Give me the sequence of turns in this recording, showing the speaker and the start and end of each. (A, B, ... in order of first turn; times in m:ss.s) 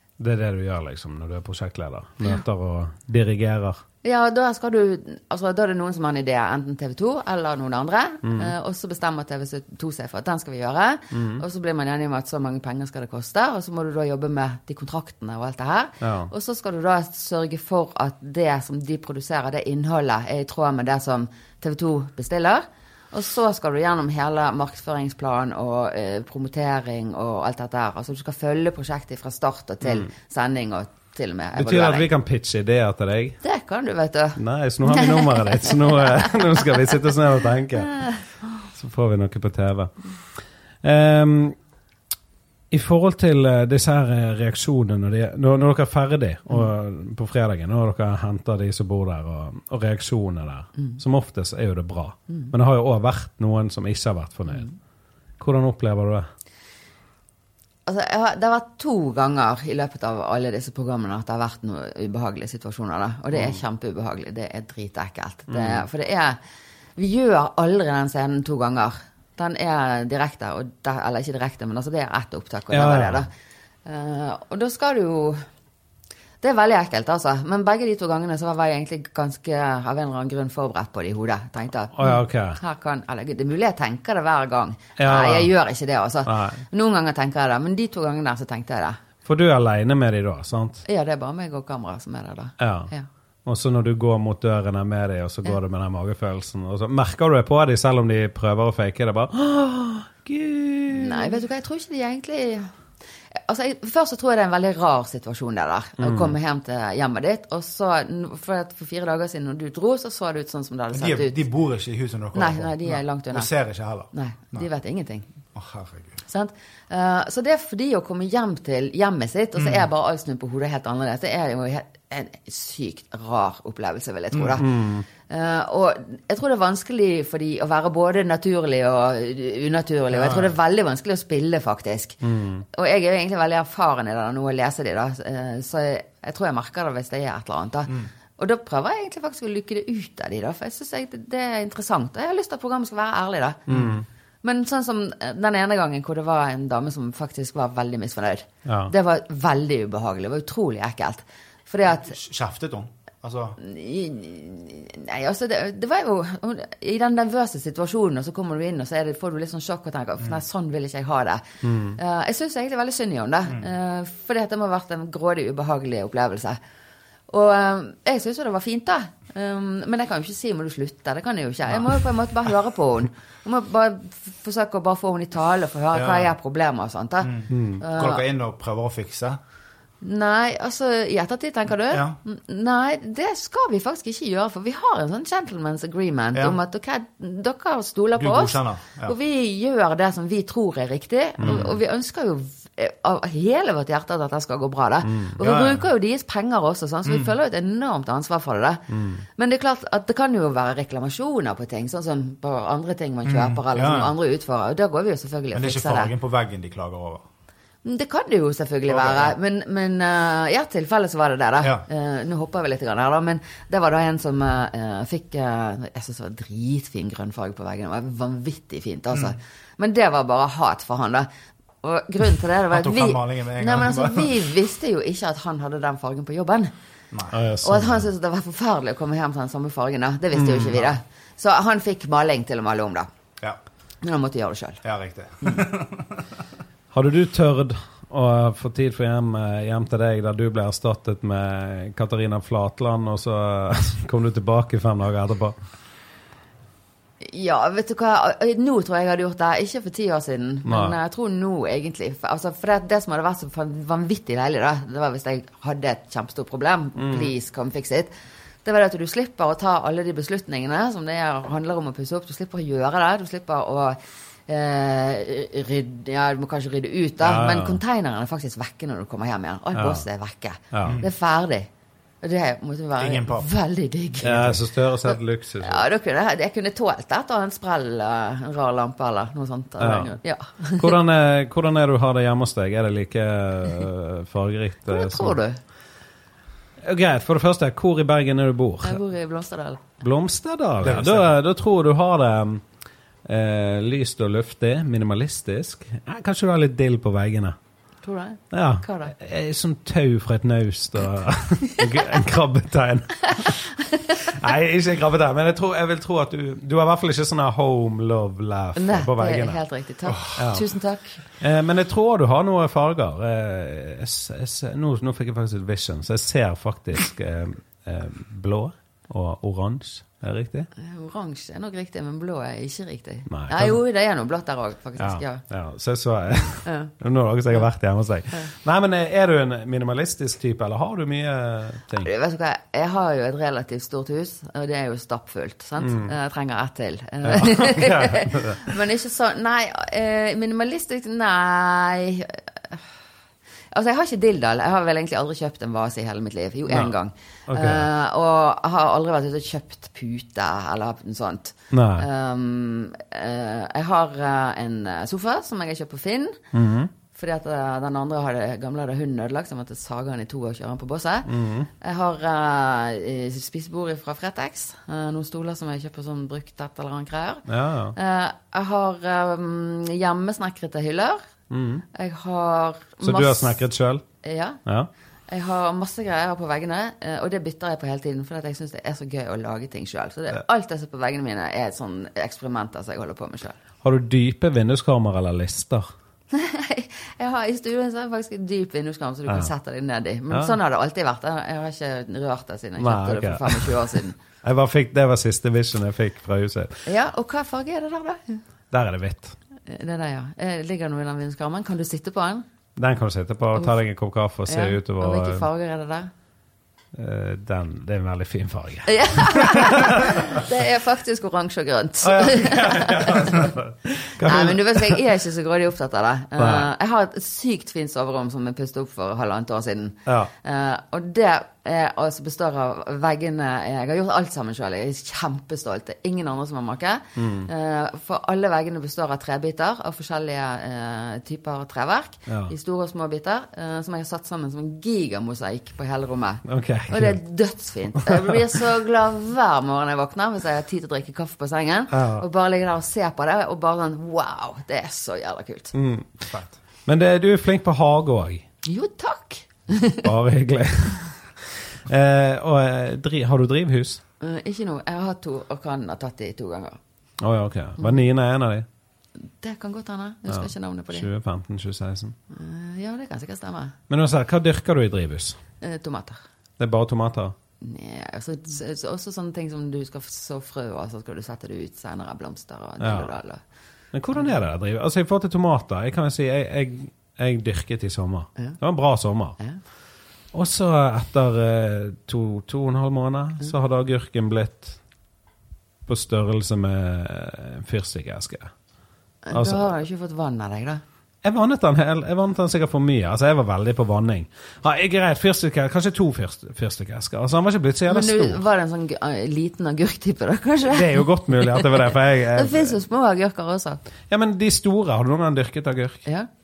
0:00.2-0:03.8 A
0:04.0-0:32.1 B
0:08.2-0:08.5 A
0:11.1-0:11.4 A
0:16.0-0:16.3 A
0:31.6-0:33.4 A
0:33.4-0:36.7 B
0:34.4-0:38.1 A
0:37.9-0:38.2 B
0:38.7-0:39.9 A
0:40.8-0:41.6 A
0:42.7-0:54.7 A
0:55.4-0:56.3 A
0:57.9-1:06.4 B
1:05.5-1:05.8 A
1:07.0-1:13.3 B
1:12.7-1:13.2 A
1:13.8-1:15.4 B
1:16.4-1:29.0 B
1:21.9-1:22.6 A
1:25.0-1:25.5 A
1:26.2-1:26.6 A
1:29.2-1:30.8 A
1:30.8-1:33.1 B
1:32.6-1:32.9 A
1:33.4-1:41.4 A
1:40.9-1:42.7 B
1:43.3-1:51.4 B
1:46.0-1:46.4 A
1:50.9-1:54.6 C
1:52.3-1:53.5 B
1:54.1-1:55.3 B
1:55.6-1:56.2 C
1:56.3-2:12.2 B
1:59.6-1:59.9 C
2:04.3-2:04.6 C
2:04.6-2:05.1 A
2:10.2-2:10.5 C
2:12.2-2:12.6 A
2:12.7-2:32.1 B
2:23.7-2:24.0 A
2:28.6-2:28.9 A
2:31.9-2:33.6 C
2:33.6-2:46.6 B
2:41.6-2:42.0 A
2:47.3-2:58.2 B
2:55.9-2:56.3 C
2:57.2-2:59.4 C
2:57.5-2:57.8 A
3:00.0-3:26.1 B
3:01.9-3:02.2 C
3:08.2-3:09.1 C
3:11.4-3:11.7 A
3:15.0-3:15.4 A
3:15.4-3:15.8 C
3:17.1-3:17.3 C
3:18.9-3:19.2 A
3:23.2-3:24.1 C
3:25.5-3:27.2 C
3:27.8-3:41.3 B
3:28.9-3:29.3 C
3:41.8-3:46.7 B
3:42.7-3:44.5 C
3:47.1-3:47.4 C
3:47.3-3:48.1 A
3:47.6-3:53.1 B
3:50.3-3:50.8 A
3:54.0-3:54.8 B
3:54.8-3:56.2 C
3:56.9-4:05.6 A
4:07.2-4:18.1 B
4:10.6-4:11.0 A
4:17.0-4:17.3 A
4:18.6-4:31.7 B
4:27.2-4:27.8 A
4:29.7-4:30.0 A
4:30.7-4:31.1 A
4:30.8-4:31.1 C
4:32.2-4:41.0 B
4:33.0-4:33.5 C
4:34.2-4:35.8 A
4:39.8-4:40.1 A
4:40.8-4:45.4 A
4:44.9-4:45.6 B
4:46.8-4:49.0 A
4:48.8-4:49.8 B
4:50.0-4:52.6 A
4:50.8-4:51.3 C
4:53.2-4:57.6 A
4:58.0-4:59.1 B
4:58.5-5:09.6 A
5:03.3-5:04.2 B
5:08.8-5:11.2 B
5:10.1-5:10.4 C
5:10.4-5:10.7 A
5:11.4-5:20.7 A
5:20.7-5:25.4 B
5:23.3-5:23.8 A
5:25.0-5:32.1 A
5:26.6-5:26.9 B
5:32.0-5:42.8 B
5:35.8-5:36.1 A
5:37.2-5:38.8 A
5:43.7-5:56.4 B
5:47.5-5:47.9 A
5:51.7-5:52.1 A
5:56.5-5:56.9 A
5:57.1-6:11.2 B
6:01.2-6:01.7 A
6:07.5-6:08.0 A
6:11.5-6:11.8 A
6:11.9-6:13.6 B
6:13.0-6:14.0 A
6:14.2-6:14.6 B
6:15.3-6:23.6 B
6:23.8-6:25.9 A
6:26.3-6:34.2 B
6:30.3-6:30.6 A
6:32.8-6:36.8 A
6:36.9-6:38.4 B
6:38.7-6:39.4 A
6:39.7-6:42.4 B
6:42.8-6:45.4 A
6:44.4-6:46.1 B
6:46.9-6:50.4 A
6:48.9-6:53.6 B
6:52.0-6:55.0 A
6:54.2-7:25.7 B
6:56.4-6:56.7 A
7:07.2-7:07.5 A
7:12.3-7:12.5 A
7:16.4-7:17.2 A
7:17.9-7:18.6 A
7:21.9-7:22.2 A
7:25.7-7:26.3 A
7:26.8-7:28.4 A
7:28.6-7:30.1 B
7:30.0-7:34.0 A
7:34.2-7:36.8 B
7:37.2-7:38.7 A
7:39.4-7:41.1 B
7:40.3-7:42.2 A
7:42.3-7:43.8 B
7:43.9-7:45.4 A
7:45.6-7:46.2 B
7:46.6-7:47.4 A
7:47.6-7:53.4 B
7:52.8-7:53.1 A
7:53.9-7:59.4 A
8:00.3-8:04.8 A
8:05.9-8:08.5 A
8:09.2-8:10.8 B
8:09.3-8:09.7 A
8:11.2-8:18.4 A
8:17.9-8:23.8 B
8:20.7-8:22.8 A
8:24.1-8:26.0 A